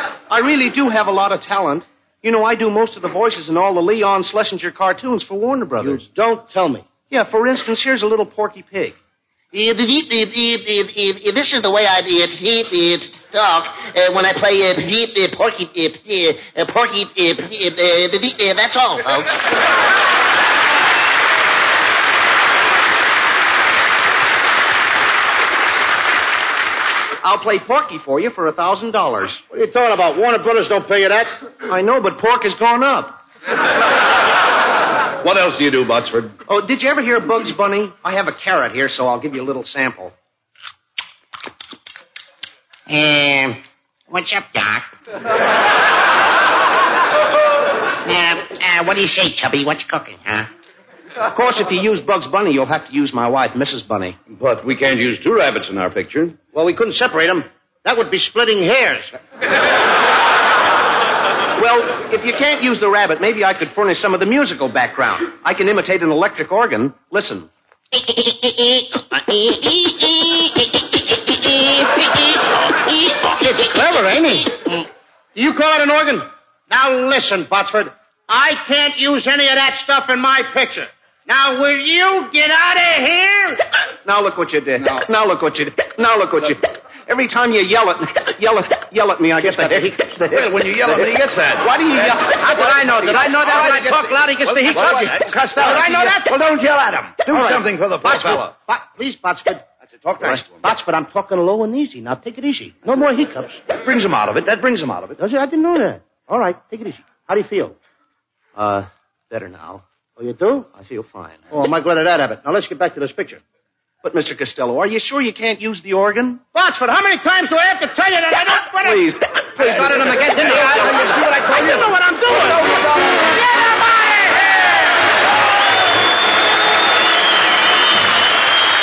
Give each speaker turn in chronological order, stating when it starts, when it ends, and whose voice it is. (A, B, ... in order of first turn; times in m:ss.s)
0:00.3-0:06.0 A
0:05.8-0:07.0 B
0:07.0-0:09.0 A
0:09.5-0:19.3 C
0:27.2-0:29.4 A
0:29.5-0:31.3 B
0:31.7-0:33.2 A
0:35.2-0:36.4 D
0:36.5-0:40.1 A
0:42.9-0:44.9 C
0:48.0-0:50.5 C
0:51.3-0:54.2 A
0:54.3-0:56.4 D
0:56.5-0:59.1 B
1:01.6-1:07.5 A
1:08.1-1:10.4 C
1:13.3-1:14.8 B
1:15.3-1:23.6 B
1:24.0-1:31.0 A
1:29.4-1:30.4 B
1:30.6-1:31.6 D
1:31.6-1:32.6 A
1:31.9-1:36.5 B
1:33.2-1:33.6 A
1:37.2-1:39.6 B
1:37.2-1:38.5 D
1:40.0-1:40.5 D
1:40.2-1:43.6 B
1:43.8-1:45.1 D
1:45.1-1:47.8 B
1:48.6-1:49.8 A
1:50.2-1:50.7 B
1:50.7-1:51.4 A
1:51.5-1:53.4 B
1:54.0-1:56.4 A
1:56.5-2:02.8 B
1:58.8-2:00.8 A